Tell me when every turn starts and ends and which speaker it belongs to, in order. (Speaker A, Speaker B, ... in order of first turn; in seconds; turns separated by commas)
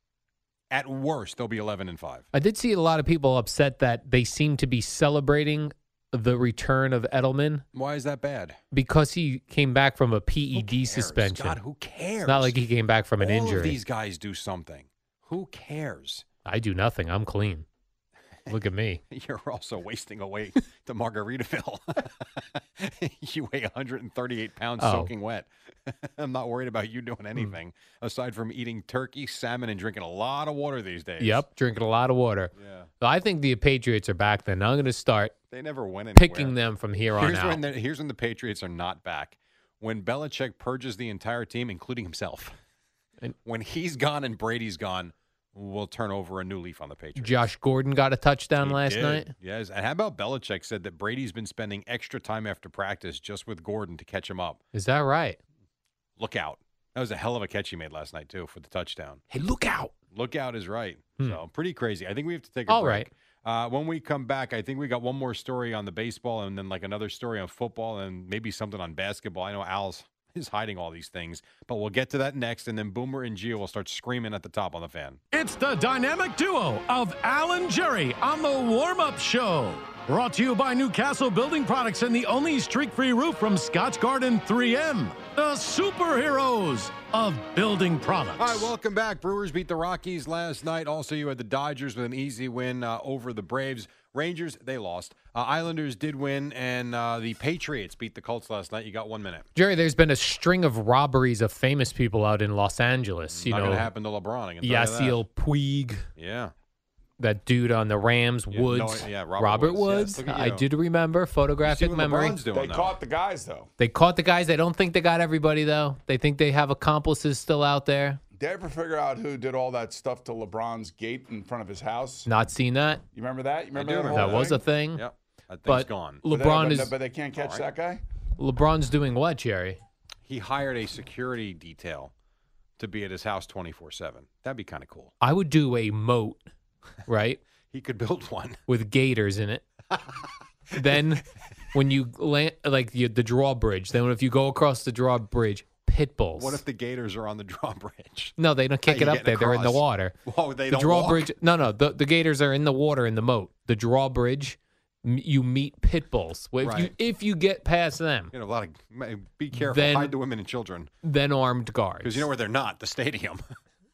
Speaker A: 0.7-2.2, Speaker B: 2.3-7.6, Speaker A: 7.7-8.6, Speaker B: 8.7-11.6, Speaker A: 10.5-12.6, Speaker B: 12.2-13.8, Speaker A: 13.2-16.2, Speaker B: 16.4-17.6, Speaker B: 18.5-19.0, Speaker A: 19.1-31.4, Speaker B: 24.8-25.1, Speaker B: 31.2-35.3, Speaker A: 32.5-32.9, Speaker A: 35.5-36.6, Speaker B: 36.1-37.6, Speaker A: 37.1-42.5, Speaker A: 43.4-47.5, Speaker B: 47.2-49.3, Speaker A: 48.6-54.6, Speaker B: 54.7-55.4, Speaker A: 56.2-59.2, Speaker B: 59.3-59.9, Speaker A: 60.1-75.2, Speaker B: 62.7-63.1, Speaker C: 75.3-88.7, Speaker A: 88.4-99.5, Speaker B: 99.5-103.9, Speaker A: 103.3-105.2, Speaker B: 104.6-106.0, Speaker A: 106.2-106.5, Speaker B: 107.2-112.4, Speaker A: 108.5-110.6, Speaker A: 111.6-113.0, Speaker D: 112.5-113.7, Speaker B: 113.8-118.2, Speaker D: 118.3-122.3, Speaker B: 122.3-123.0, Speaker D: 123.1-124.6, Speaker A: 123.7-126.2, Speaker B: 124.1-125.0, Speaker B: 125.7-126.9, Speaker D: 126.3-128.0, Speaker A: 127.3-127.7, Speaker B: 128.4-129.8, Speaker A: 130.2-132.1, Speaker A: 132.8-135.1, Speaker B: 135.2-136.4, Speaker B: 137.1-137.4, Speaker A: 137.7-138.6, Speaker B: 138.7-139.6, Speaker B: 140.8-146.6, Speaker A: 146.3-151.3, Speaker B: 148.4-150.1, Speaker B: 150.7-158.3, Speaker A: 156.6-156.9, Speaker A: 158.3-160.9, Speaker B: 159.5-160.1, Speaker B: 161.0-162.3, Speaker A: 162.0-163.4